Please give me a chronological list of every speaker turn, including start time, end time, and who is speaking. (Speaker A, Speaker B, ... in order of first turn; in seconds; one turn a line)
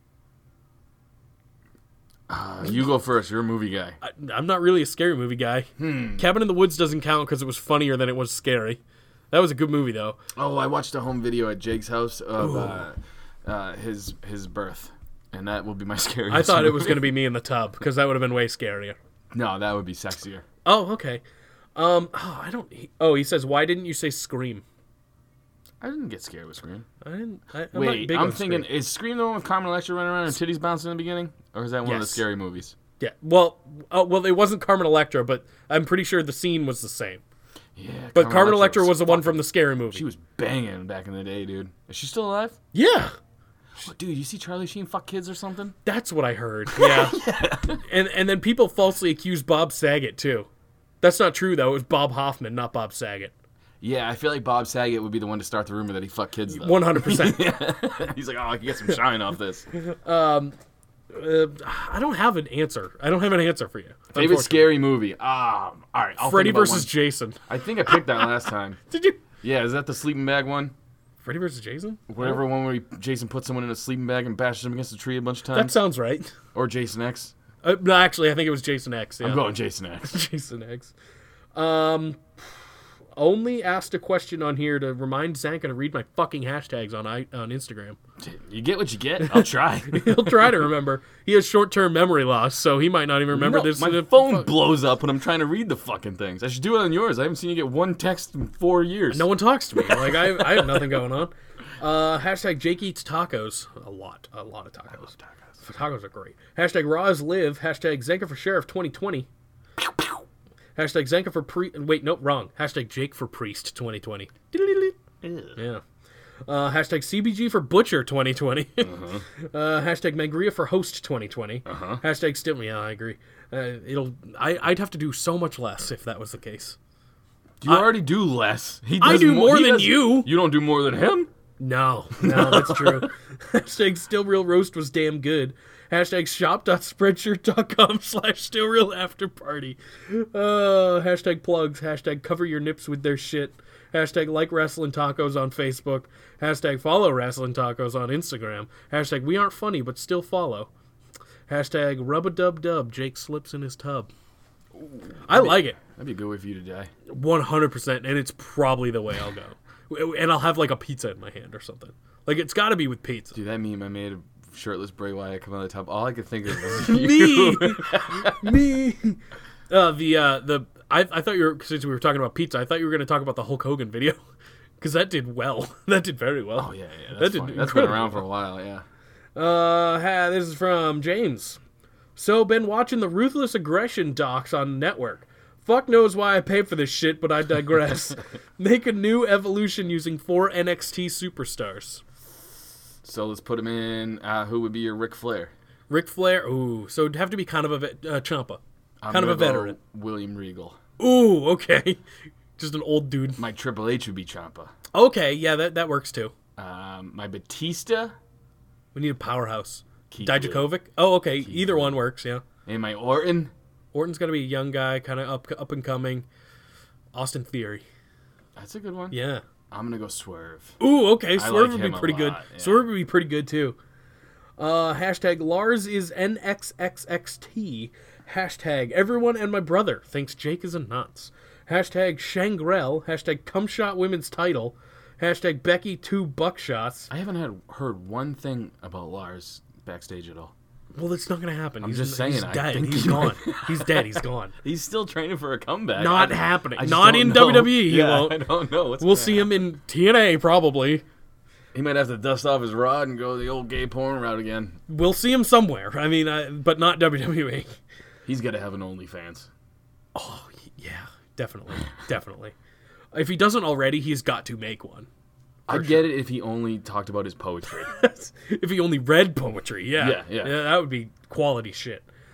Speaker A: 2.3-4.0
Speaker B: 4.0-8.8
Speaker A: 5.8-6.2
Speaker B: 9.3-10.2
Speaker A: 10.3-17.1
Speaker B: 12.4-12.8
Speaker B: 16.3-18.9
Speaker A: 19.3-20.4
Speaker B: 20.6-21.2
Speaker B: 21.8-24.6
Speaker A: 25.8-26.9
Speaker B: 27.0-28.7
Speaker A: 27.7-32.7
Speaker B: 31.8-32.2
Speaker B: 33.0-37.2
Speaker A: 37.8-42.6
Speaker B: 38.1-40.0
Speaker B: 42.7-43.1
Speaker A: 43.8-45.7
Speaker B: 45.8-47.2
Speaker A: 46.7-47.8
Speaker B: 47.8-50.5
Speaker B: 51.0-53.3
Speaker A: 53.8-59.7
Speaker B: 56.5-57.5
Speaker B: 59.8-60.5
Speaker B: 61.1-64.7
Speaker A: 64.1-66.9
Speaker B: 66.2-68.3
Speaker A: 67.5-68.8
Speaker B: 68.9-69.2
Speaker A: 69.4-70.7
Speaker B: 71.2-72.2
Speaker A: 72.1-75.8
Speaker B: 75.5-76.3
Speaker A: 76.5-77.3
Speaker B: 77.6-79.5
Speaker A: 79.2-80.2
Speaker B: 80.0-80.9
Speaker B: 81.5-82.2
Speaker B: 83.2-88.0
Speaker A: 88.2-90.7
Speaker B: 89.2-94.5
Speaker A: 93.3-99.2
Speaker B: 99.1-105.1
Speaker A: 99.8-100.8
Speaker A: 105.1-105.5
Speaker B: 105.6-109.3
Speaker B: 110.8-114.9
Speaker A: 115.2-115.6
Speaker B: 115.5-115.8
Speaker B: 116.5-126.8
Speaker A: 118.8-119.2
Speaker A: 121.7-122.0
Speaker A: 127.6-131.3
Speaker B: 127.7-127.9
Speaker B: 129.0-130.3
Speaker B: 131.6-150.7
Speaker A: 132.2-133.1
Speaker B: 151.5-154.1
Speaker A: 154.7-156.9
Speaker B: 155.2-155.8
Speaker B: 157.1-163.3
Speaker A: 163.3-168.5
Speaker B: 166.7-169.2
Speaker B: 169.7-174.2
Speaker B: 174.8-178.2
Speaker A: 176.6-178.8
Speaker B: 179.3-181.6
Speaker B: 182.2-192.0
Speaker A: 193.0-195.5
Speaker B: 195.9-199.8
Speaker A: 199.0-200.8
Speaker B: 201.0-202.0
Speaker B: 202.6-203.4
Speaker A: 203.4-204.7
Speaker B: 204.9-206.3
Speaker A: 206.6-208.2
Speaker B: 208.9-212.4
Speaker A: 210.1-210.7
Speaker A: 211.4-211.9
Speaker A: 212.7-213.5
Speaker B: 213.9-216.2
Speaker B: 217.1-217.8
Speaker A: 218.6-219.2
Speaker B: 219.1-219.4
Speaker A: 219.7-220.8
Speaker B: 220.8-223.8
Speaker A: 221.3-222.9
Speaker B: 224.6-237.1
Speaker A: 237.1-240.5
Speaker B: 240.9-244.5
Speaker A: 241.8-249.5
Speaker B: 246.0-248.4
Speaker B: 249.0-251.0
Speaker A: 251.7-254.8
Speaker B: 254.9-257.8
Speaker A: 258.2-259.5
Speaker B: 260.1-262.5
Speaker B: 263.1-265.1
Speaker A: 265.7-267.9
Speaker B: 265.7-266.1
Speaker B: 267.8-272.0
Speaker A: 270.0-270.6